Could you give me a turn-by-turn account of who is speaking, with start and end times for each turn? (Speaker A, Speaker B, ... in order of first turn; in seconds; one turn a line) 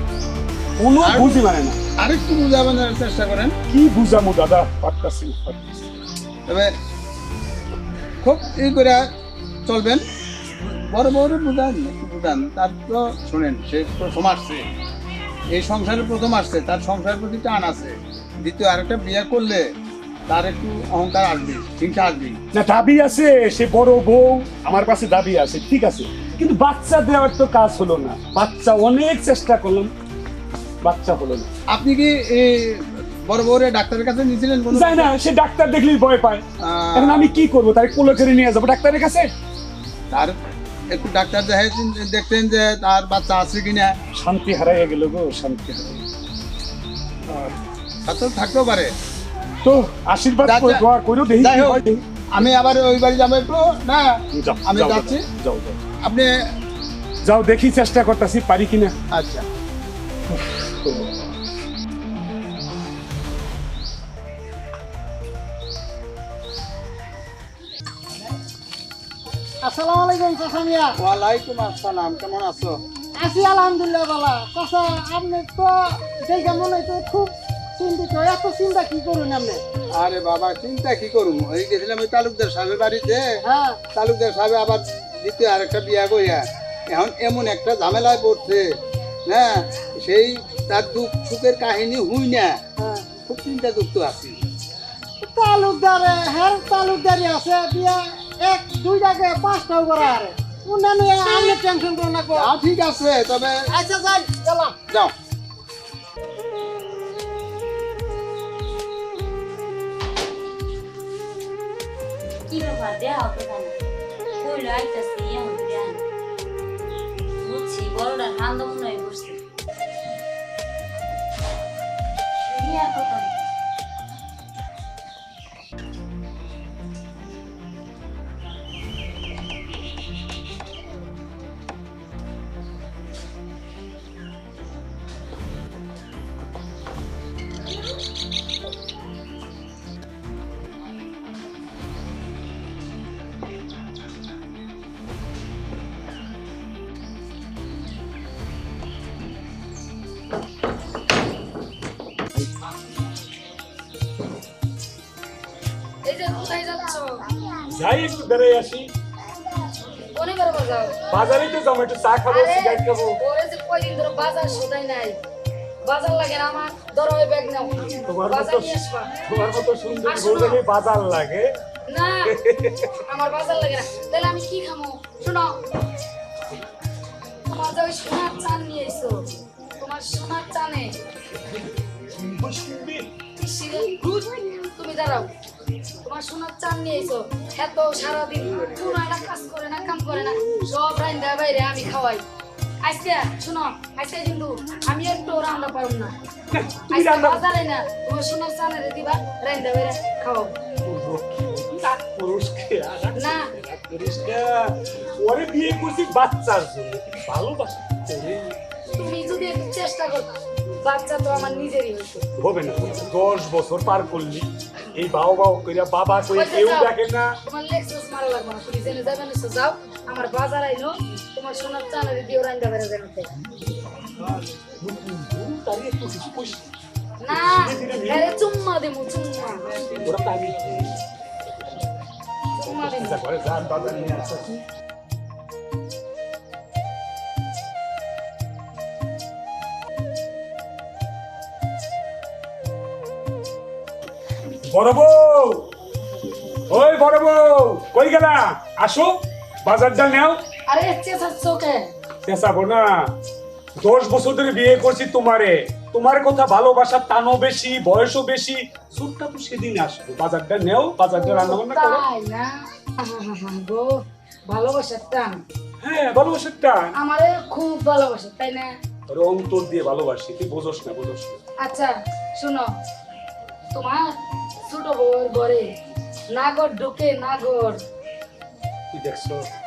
Speaker A: 0.8-1.8
Speaker B: 1.0-1.4
Speaker B: 2.0-3.6
Speaker A: 3.7-5.9
Speaker B: 6.5-6.7
Speaker B: 8.2-9.1
Speaker B: 9.7-10.0
Speaker B: 10.6-14.6
Speaker B: 15.5-19.7
Speaker B: 20.3-22.4
Speaker A: 22.5-29.9
Speaker A: 30.8-31.5
Speaker B: 31.7-35.1
Speaker A: 34.7-36.4
Speaker B: 36.6-37.3
Speaker A: 37.0-39.3
Speaker B: 40.1-40.4
Speaker B: 40.9-44.0
Speaker A: 44.1-46.0
Speaker A: 47.3-47.5
Speaker B: 48.0-48.9
Speaker A: 49.6-52.0
Speaker B: 50.4-50.8
Speaker B: 51.4-51.8
Speaker B: 52.4-55.3
Speaker A: 54.3-55.8
Speaker B: 56.0-56.3
Speaker A: 57.2-59.0
Speaker B: 59.1-59.5
Speaker A: 60.3-61.2
Speaker C: 69.6-71.0
Speaker B: 71.0-72.8
Speaker C: 73.2-79.6
Speaker B: 80.0-83.4
Speaker C: 83.4-83.8
Speaker B: 83.9-88.7
Speaker B: 89.3-92.6
Speaker C: 92.8-93.1
Speaker B: 93.2-94.4
Speaker C: 95.2-102.5
Speaker B: 102.3-103.6
Speaker C: 103.7-104.8
Speaker D: 112.5-113.7
Speaker D: 114.4-116.0
Speaker D: 117.4-119.4
Speaker D: 122.5-123.4
Speaker E: 156.1-157.2
Speaker A: 157.7-158.9
Speaker E: 160.2-161.4
Speaker A: 161.1-163.2
Speaker E: 162.3-165.2
Speaker E: 165.9-169.1
Speaker A: 168.1-171.5
Speaker E: 170.1-170.6
Speaker E: 171.9-172.3
Speaker A: 172.3-172.9
Speaker E: 173.1-175.6
Speaker E: 177.5-179.2
Speaker E: 179.8-181.0
Speaker A: 182.1-183.1
Speaker E: 183.4-185.3
Speaker E: 186.1-192.2
Speaker E: 192.8-196.2
Speaker A: 196.5-197.4
Speaker E: 196.9-200.6
Speaker A: 200.9-208.6
Speaker E: 203.2-203.5
Speaker E: 209.0-212.3
Speaker A: 212.4-217.4
Speaker E: 216.3-216.9
Speaker E: 217.5-223.3
Speaker A: 224.8-226.7
Speaker E: 227.2-229.8
Speaker A: 227.3-228.3
Speaker A: 230.0-231.0
Speaker E: 232.6-233.2
Speaker A: 232.6-234.6
Speaker A: 244.7-245.7
Speaker A: 246.7-250.4
Speaker E: 250.7-251.9
Speaker A: 252.2-253.1
Speaker A: 253.8-262.0
Speaker E: 261.2-265.4
Speaker A: 265.8-266.9
Speaker E: 266.9-268.7
Speaker A: 269.1-271.4
Speaker E: 271.6-272.7
Speaker E: 273.7-274.2
Speaker E: 274.7-275.8
Speaker E: 276.3-277.8
Speaker A: 278.9-279.5